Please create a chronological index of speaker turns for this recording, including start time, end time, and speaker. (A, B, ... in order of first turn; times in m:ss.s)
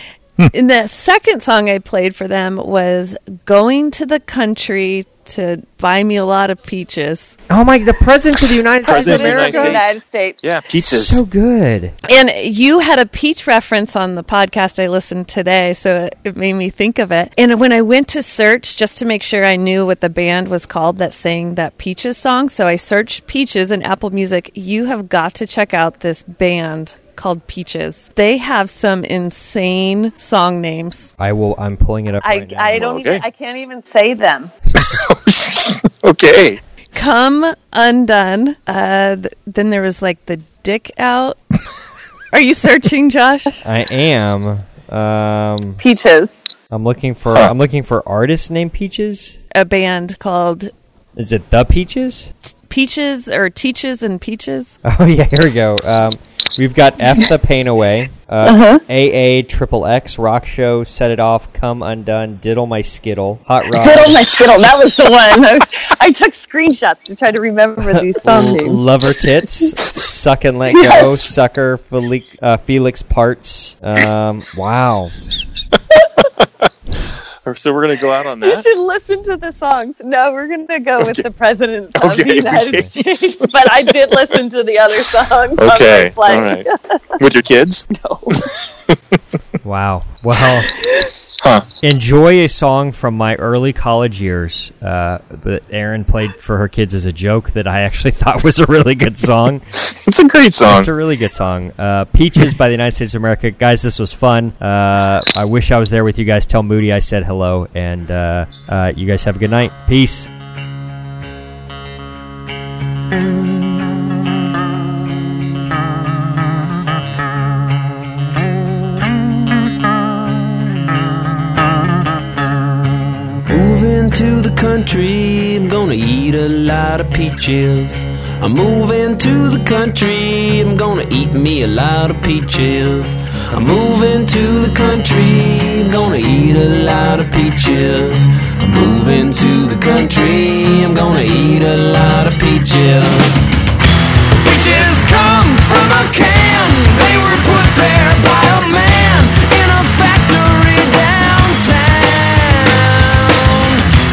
0:00.5-0:07.3 A
0:07.5-0:09.8 B
0:08.8-0:10.4 C
0:08.9-0:11.2 D
0:10.7-0:11.9 B
0:12.1-0:31.1 A
0:31.2-0:32.9 B
0:32.2-0:34.5 C
0:32.8-0:33.2 D
0:34.7-0:36.6 D
0:36.9-0:41.4 A
0:42.3-0:43.6 A
0:43.6-0:45.8 B
0:45.8-0:46.4 C
0:46.7-0:49.4 B
0:49.5-0:50.7 A
0:51.2-0:52.3 B
0:52.7-0:54.7 A
0:54.8-1:04.3 B
0:58.4-0:58.8 C
1:03.7-1:08.8 C
1:07.8-1:15.1 B
1:10.7-1:11.2 C
1:17.4-1:18.6 D
1:18.4-1:26.8 C
1:21.0-1:21.3 D
1:21.9-1:24.3 D
1:22.6-1:22.9 B
1:25.6-1:26.7 D
1:27.2-1:29.0 D
1:27.9-1:28.4 C
1:29.6-1:30.7 B
1:31.4-1:31.6 D
1:31.8-1:39.7 B
1:39.8-1:40.9 D
1:40.6-1:50.3 B
2:03.5-2:23.4 E
2:24.4-2:33.8 E